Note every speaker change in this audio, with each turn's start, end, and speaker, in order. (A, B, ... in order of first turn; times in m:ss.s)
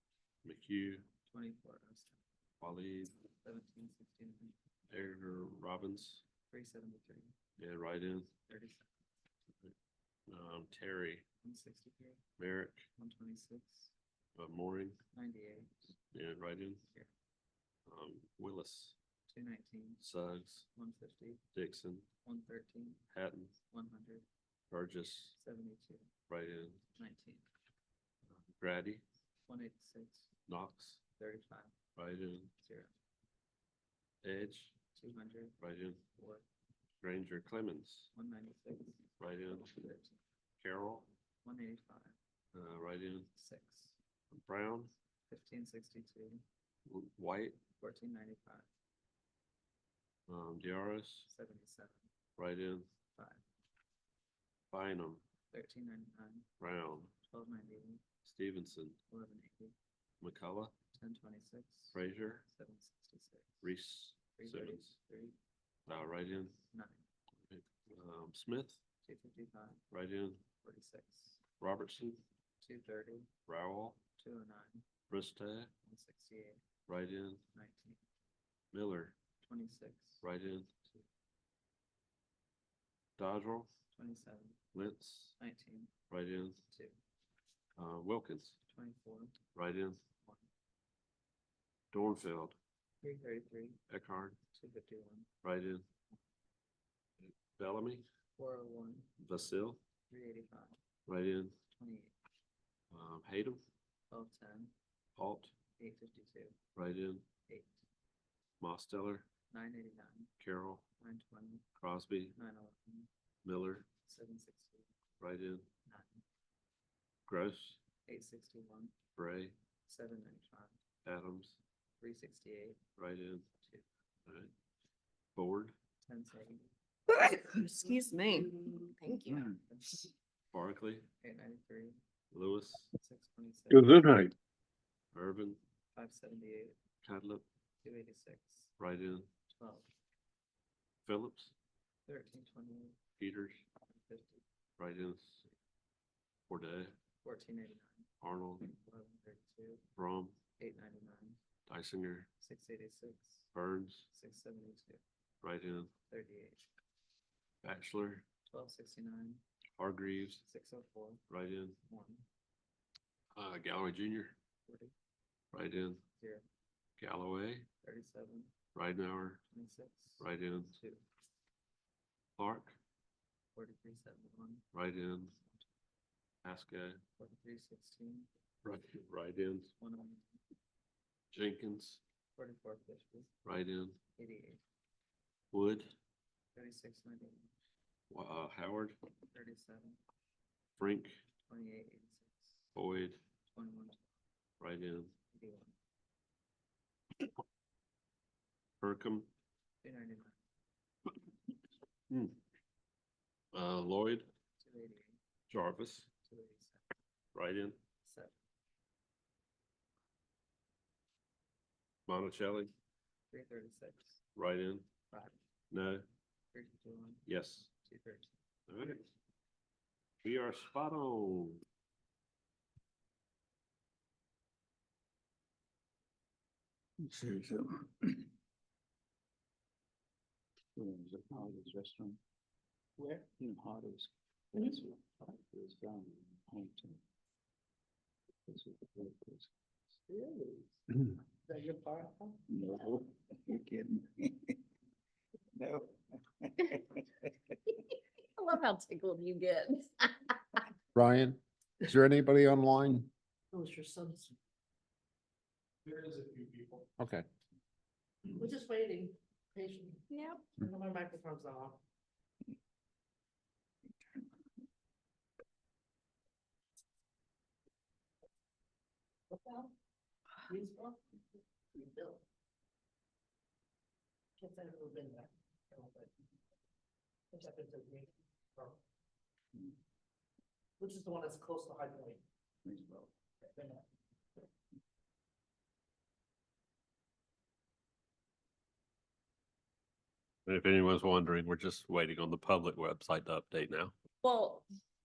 0:00.4-0:01.1 A
0:01.2-0:02.2 B
0:02.6-0:03.1 A
0:03.3-0:04.5 B
0:04.9-0:06.2 A
0:06.5-0:07.3 B
0:07.6-0:08.3 A
0:08.5-0:08.9 B
0:10.3-0:11.2 A
0:11.4-0:12.2 B
0:12.4-0:12.9 A
0:13.0-0:13.9 B
0:14.4-0:15.0 A
0:15.1-0:15.9 B
0:16.1-0:16.9 A
0:17.9-0:19.0 A
0:19.3-0:20.0 B
0:20.0-0:20.7 A
0:20.7-0:21.4 B
0:21.5-0:22.0 A
0:22.2-0:23.0 B
0:23.1-0:23.6 A
0:23.6-0:24.2 B
0:24.7-0:25.3 A
0:25.3-0:26.1 B
0:26.3-0:26.8 A
0:27.0-0:27.4 B
0:28.3-0:29.0 A
0:29.4-0:30.3 B
0:30.5-0:31.0 A
0:31.2-0:31.7 B
0:32.0-0:32.5 A
0:32.6-0:32.9 B
0:34.2-0:34.7 A
0:34.9-0:35.5 B
0:35.6-0:36.0 A
0:36.1-0:36.4 B
0:37.0-0:38.1 A
0:38.1-0:39.0 B
0:39.2-0:39.7 A
0:39.6-0:40.2 B
0:40.6-0:41.1 A
0:41.4-0:42.2 B
0:42.5-0:43.3 A
0:43.3-0:43.9 B
0:44.3-0:44.9 A
0:45.3-0:46.4 B
0:46.9-0:47.6 A
0:47.8-0:48.7 B
0:50.3-0:51.3 A
0:51.3-0:52.1 B
0:52.4-0:52.9 A
0:53.1-0:53.4 B
0:54.7-0:55.2 A
0:55.5-0:56.5 B
0:56.6-0:57.1 A
0:57.2-0:58.0 B
0:58.2-0:59.0 A
0:59.1-0:59.7 B
1:00.2-1:00.7 A
1:00.9-1:03.7 B
1:01.9-1:02.4 A
1:03.6-1:05.0 A
1:04.3-1:05.4 B
1:05.9-1:06.6 A
1:06.6-1:07.0 B
1:07.4-1:08.8 A
1:09.0-1:09.8 B
1:09.9-1:10.4 A
1:10.6-1:11.4 B
1:11.6-1:12.2 A
1:12.6-1:13.3 B
1:13.5-1:14.0 A
1:14.2-1:14.8 B
1:15.1-1:15.7 A
1:15.8-1:16.6 B
1:16.9-1:17.4 A
1:17.5-1:18.0 B
1:18.7-1:19.2 A
1:19.4-1:20.2 B
1:20.2-1:20.9 A
1:23.2-1:23.7 A
1:23.9-1:24.6 B
1:24.7-1:25.4 A
1:25.4-1:25.9 B
1:26.1-1:26.6 A
1:26.7-1:27.0 B
1:27.8-1:28.6 A
1:28.6-1:29.4 B
1:29.5-1:30.0 A
1:31.9-1:32.6 A
1:33.0-1:33.8 B
1:33.9-1:34.4 A
1:34.5-1:35.3 B
1:35.4-1:35.9 A
1:37.2-1:38.0 A
1:38.4-1:39.1 B
1:39.2-1:39.8 A
1:40.1-1:40.8 B
1:41.1-1:41.6 A
1:41.7-1:42.1 B
1:42.9-1:43.6 A
1:44.1-1:44.7 B
1:45.2-1:45.5 A
1:45.8-1:46.6 B
1:46.7-1:47.2 A
1:47.4-1:47.8 B
1:48.6-1:49.3 A
1:49.5-1:50.3 B
1:50.4-1:50.8 A
1:51.0-1:51.6 B
1:51.8-1:52.3 A
1:52.3-1:53.1 B
1:53.4-1:53.9 A
1:54.0-1:54.9 B
1:55.2-1:55.7 A
1:55.8-1:56.2 B
1:57.3-1:57.8 A
1:58.0-1:58.9 B
1:59.2-1:59.5 A
1:59.9-2:00.8 B
2:01.0-2:01.6 A
2:02.0-2:02.8 B
2:03.0-2:03.5 A
2:03.5-2:03.8 B
2:05.4-2:05.7 A
2:06.0-2:06.7 B
2:07.1-2:09.4 C
2:09.3-2:09.5 D
2:09.6-2:10.0 B
2:10.5-2:11.1 A
2:11.2-2:12.0 B
2:12.3-2:12.9 A
2:13.0-2:13.9 B
2:13.7-2:14.3 A
2:15.1-2:15.6 A
2:15.9-2:16.8 B
2:17.0-2:17.4 A
2:17.8-2:18.7 B
2:18.8-2:19.3 A
2:19.5-2:19.9 B
2:21.0-2:21.5 A
2:22.1-2:23.0 B
2:23.2-2:23.6 A
2:23.9-2:24.4 B
2:24.8-2:25.5 A
2:26.5-2:26.9 A
2:27.2-2:28.1 B
2:28.2-2:28.6 A
2:28.6-2:29.8 B
2:30.0-2:30.4 A
2:30.6-2:31.4 B
2:31.7-2:32.3 A
2:32.4-2:33.5 B
2:33.5-2:34.1 A
2:34.1-2:35.0 B
2:35.4-2:35.9 A
2:36.1-2:36.7 B
2:37.6-2:38.2 A
2:38.5-2:39.4 B
2:39.8-2:40.4 A
2:40.4-2:41.2 B
2:41.3-2:41.8 A
2:41.8-2:42.2 B
2:43.4-2:44.3 A
2:44.6-2:44.9 B
2:45.5-2:46.0 A
2:46.2-2:46.4 B
2:47.0-2:47.7 A
2:47.8-2:48.5 B
2:48.7-2:49.4 A
2:49.5-2:51.0 B
2:50.2-2:50.8 A
2:52.4-2:52.8 A
2:53.5-2:54.6 B
2:54.7-2:55.4 A
2:55.3-2:55.7 B
2:56.4-2:57.0 A
2:57.2-2:58.3 B
2:58.6-2:59.7 A
2:59.8-3:00.4 B
3:01.3-3:02.0 A
3:02.4-3:03.3 B
3:03.4-3:04.0 A
3:04.2-3:04.6 B
3:05.5-3:05.9 A
3:06.5-3:07.5 B
3:08.1-3:09.0 A
3:09.3-3:10.0 B
3:10.8-3:11.2 A
3:11.4-3:12.7 B
3:12.7-3:13.2 A
3:13.4-3:14.0 B
3:14.6-3:15.1 A
3:15.3-3:15.7 B
3:18.8-3:19.3 A
3:19.8-3:20.4 B
3:22.1-3:22.4 A
3:23.5-3:24.3 A
3:24.6-3:25.2 B
3:25.5-3:26.1 A
3:26.2-3:26.8 B
3:27.3-3:27.8 A
3:28.0-3:28.4 B
3:32.1-3:32.7 A
3:33.3-3:34.2 B
3:34.3-3:34.9 A
3:35.1-3:35.4 B
3:35.7-3:36.0 A
3:36.5-3:37.2 B
3:37.2-3:37.7 A
3:37.8-3:38.3 B
3:38.7-3:39.1 A
3:40.2-3:41.6 A
3:47.0-3:48.2 D
3:50.8-3:52.2 D
3:53.0-3:57.0 D
3:58.5-4:00.5 D
4:01.5-4:02.4 E
4:02.5-4:04.6 D
4:05.6-4:07.0 D
4:08.4-4:10.4 C
4:10.9-4:13.1 F
4:13.5-4:14.3 E
4:16.0-4:16.8 E
4:17.0-4:17.2 F
4:18.3-4:21.8 E
4:20.1-4:20.4 C
4:29.3-4:29.7 E
4:30.5-4:31.0 E
4:31.7-4:32.2 E
4:34.4-4:36.1 E
4:37.3-4:38.8 E
4:40.8-4:42.2 E
4:42.6-4:43.1 D
4:43.4-4:43.8 E
4:50.4-4:53.9 A
4:54.2-4:54.6 C